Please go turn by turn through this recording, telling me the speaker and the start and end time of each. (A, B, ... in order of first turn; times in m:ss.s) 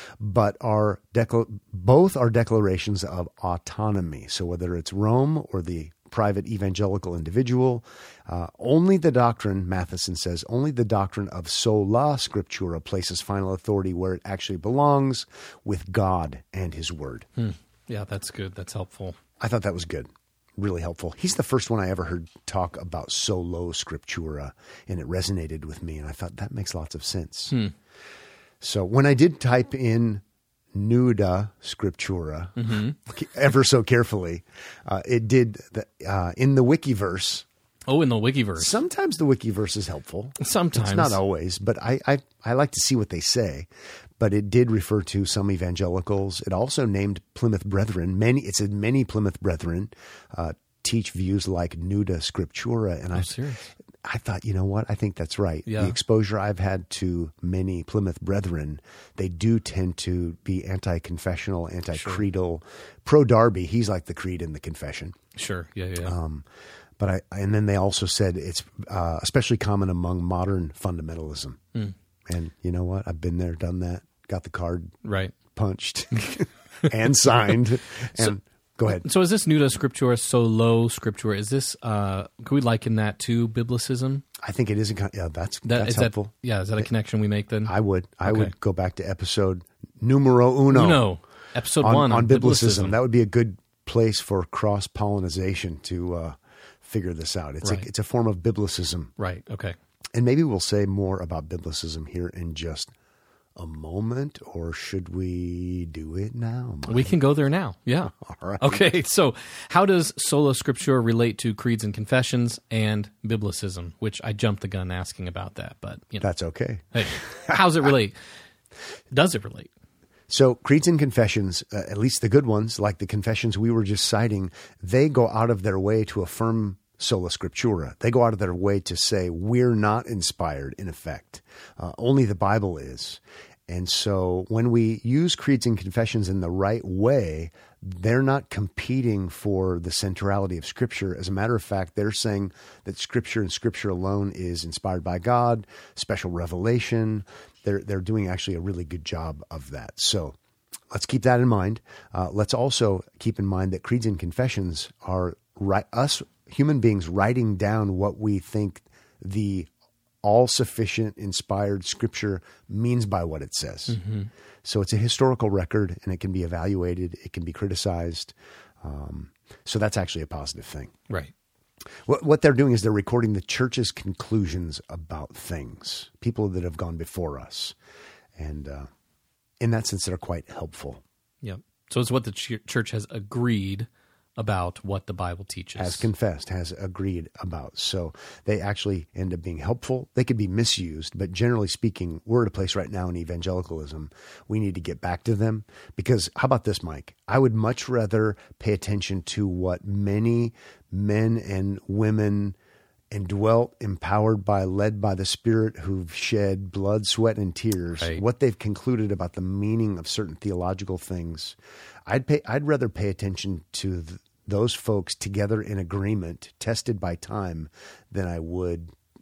0:00.2-0:17.3 A
0:17.4-0:19.2 B
0:19.4-0:27.6 A
0:28.6-0:30.2 A
0:30.7-0:37.4 A
0:32.6-0:33.0 B
0:37.9-0:38.7 B
0:38.6-0:43.7 A
0:40.4-0:41.2 B
0:44.2-0:53.4 A
0:53.1-0:53.6 B
0:54.0-1:05.2 A
0:55.6-0:56.0 B
1:01.9-1:02.2 B
1:05.3-1:06.1 B
1:06.0-1:06.4 A
1:07.0-1:11.6 A
1:12.3-1:19.0 A
1:15.0-1:15.3 B
1:18.9-1:24.2 B
1:24.4-1:26.8 A
1:25.6-1:27.7 B
1:27.6-1:31.1 A
1:28.2-1:28.5 B
1:30.7-1:33.0 B
1:31.8-1:39.1 A
1:39.2-1:39.8 B
1:40.1-1:42.9 A
1:43.6-1:47.1 A
1:46.9-1:56.2 B
1:48.2-1:48.8 A
1:56.2-1:57.6 A
1:56.9-1:58.2 B
1:59.1-1:59.7 B
2:00.3-2:30.4 A
2:30.9-2:39.7 A
2:40.2-2:44.0 A
2:43.9-2:44.3 B
2:44.6-2:50.9 A
2:52.0-2:57.7 A
2:58.4-2:58.9 A
2:59.6-3:01.0 A
3:01.4-3:06.1 B
3:05.8-3:22.6 A
3:23.1-3:31.6 A
3:32.1-3:38.9 A